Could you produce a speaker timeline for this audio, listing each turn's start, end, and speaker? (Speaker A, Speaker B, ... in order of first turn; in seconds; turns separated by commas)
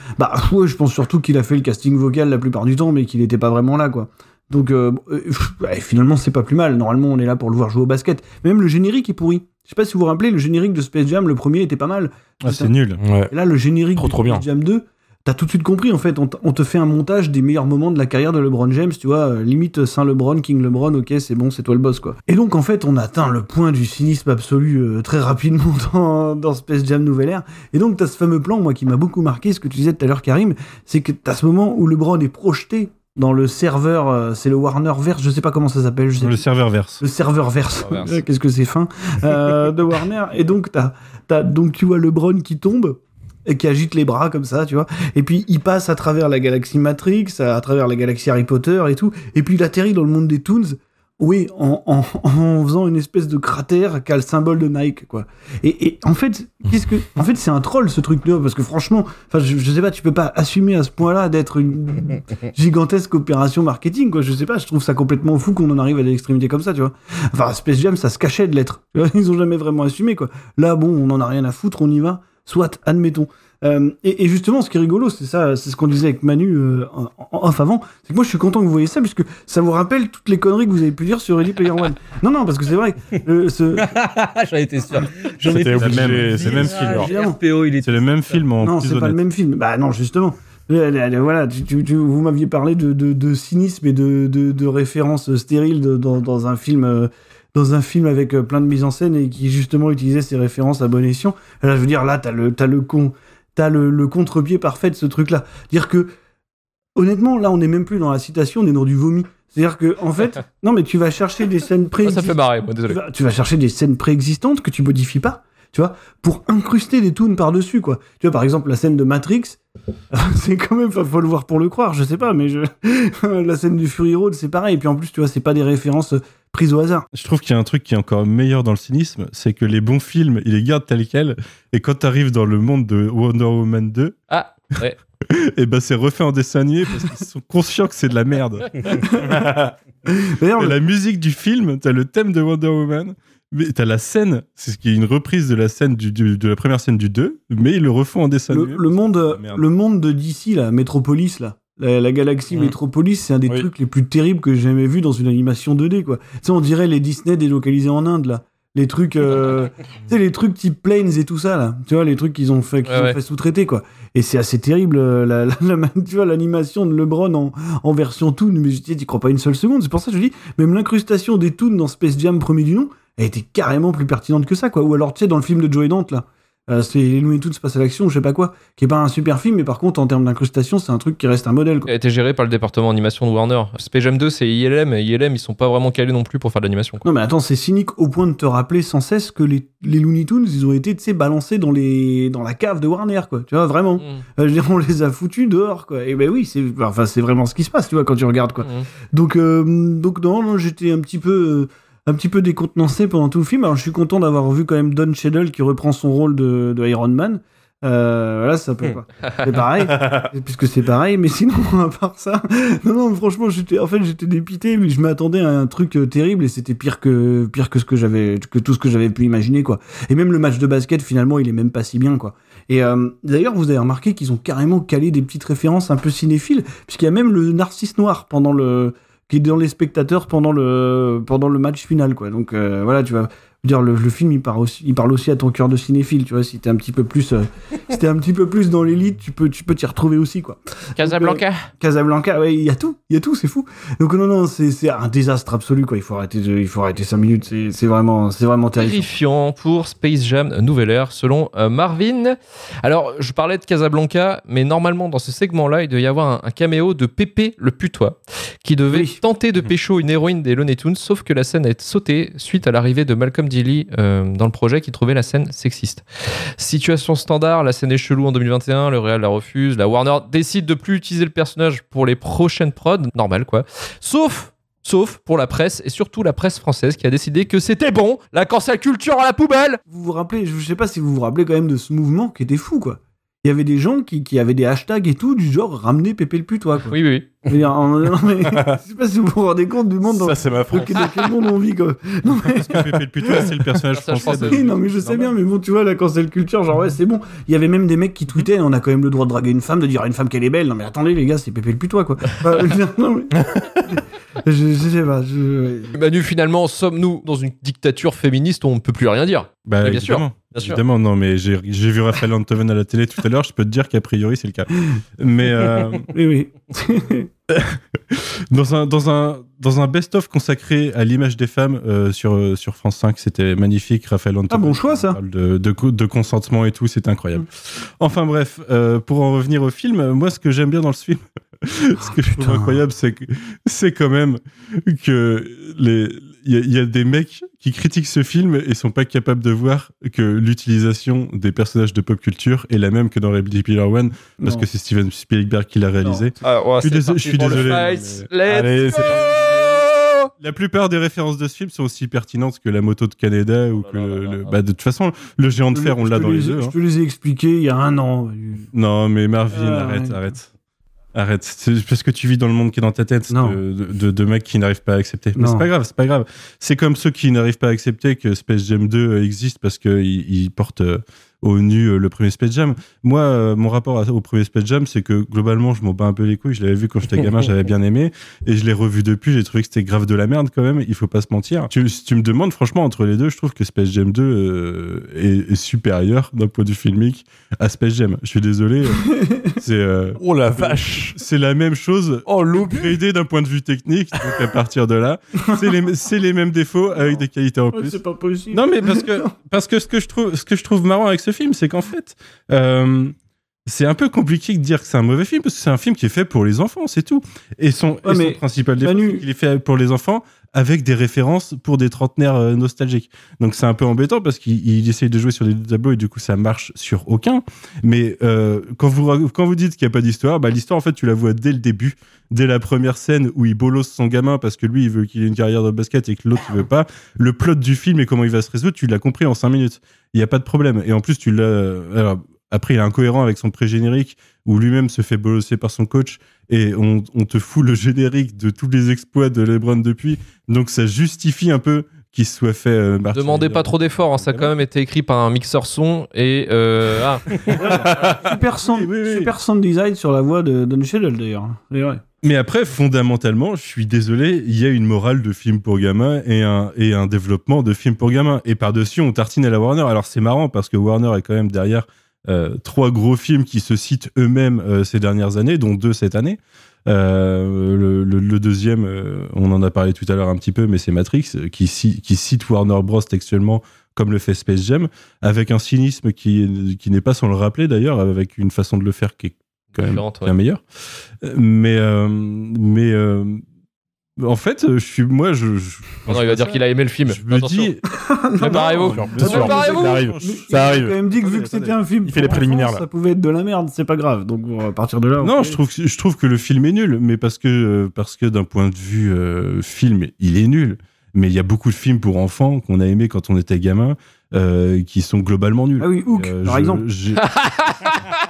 Speaker A: 0.2-12.7, Speaker B: 12.4-13.0, Speaker C: 13.0-13.3, Speaker A: 13.3-36.4, Speaker C: 13.9-14.4, Speaker B: 36.2-37.0, Speaker A: 37.0-83.9, Speaker D: 37.8-38.2, Speaker E: 83.8-88.4, Speaker C: 85.5-87.1, Speaker B: 85.8-87.0, Speaker A: 86.2-87.4, Speaker B: 87.8-89.2, Speaker A: 88.6-106.1, Speaker A: 106.9-119.6, Speaker D: 112.0-113.0, Speaker A: 120.1-127.1, Speaker B: 127.1-134.2, Speaker D: 134.3-135.0, Speaker B: 135.3-139.7, Speaker A: 138.9-139.5, Speaker A: 140.1-140.8, Speaker B: 140.6-149.7, Speaker A: 148.5-181.9, Speaker D: 162.8-163.2, Speaker D: 181.9-187.1, Speaker A: 187.0-249.1, Speaker D: 194.0-194.2, Speaker D: 198.6-198.9, Speaker D: 241.0-241.7, Speaker D: 248.8-266.0, Speaker A: 258.9-259.2, Speaker D: 266.6-279.8, Speaker A: 279.9-286.9, Speaker D: 286.9-287.3, Speaker A: 287.5-293.6, Speaker C: 290.1-291.3, Speaker B: 292.6-294.7, Speaker D: 293.9-295.3, Speaker A: 294.2-305.9, Speaker D: 305.9-310.8, Speaker B: 309.6-316.1, Speaker A: 316.1-317.3, Speaker B: 317.5-327.5, Speaker A: 324.5-325.2, Speaker B: 328.0-348.3, Speaker A: 332.2-332.8, Speaker A: 344.4-344.6, Speaker A: 346.0-346.3, Speaker D: 346.4-349.8, Speaker C: 348.4-349.4, Speaker B: 350.4-356.8, Speaker D: 353.7-354.6, Speaker A: 355.7-358.7, Speaker B: 358.7-360.5, Speaker A: 359.5-360.2, Speaker B: 361.1-389.1, Speaker A: 363.3-363.6, Speaker A: 365.4-365.7, Speaker A: 389.1-389.6, Speaker B: 389.6-398.0, Speaker C: 390.2-391.2, Speaker C: 392.3-392.9, Speaker A: 397.7-399.3, Speaker B: 398.5-403.1, Speaker B: 403.7-444.5, Speaker A: 408.0-409.2, Speaker D: 443.1-447.3, Speaker B: 447.3-449.3, Speaker A: 447.5-452.0, Speaker D: 447.9-448.2, Speaker B: 452.2-480.6, Speaker D: 479.8-480.3, Speaker B: 481.2-483.4, Speaker B: 484.2-487.8, Speaker D: 486.1-487.7, Speaker A: 488.1-495.6, Speaker D: 488.4-490.0, Speaker B: 488.4-491.8, Speaker C: 488.5-490.9, Speaker C: 492.0-492.8, Speaker B: 495.2-507.2, Speaker A: 505.8-506.8, Speaker D: 507.2-508.0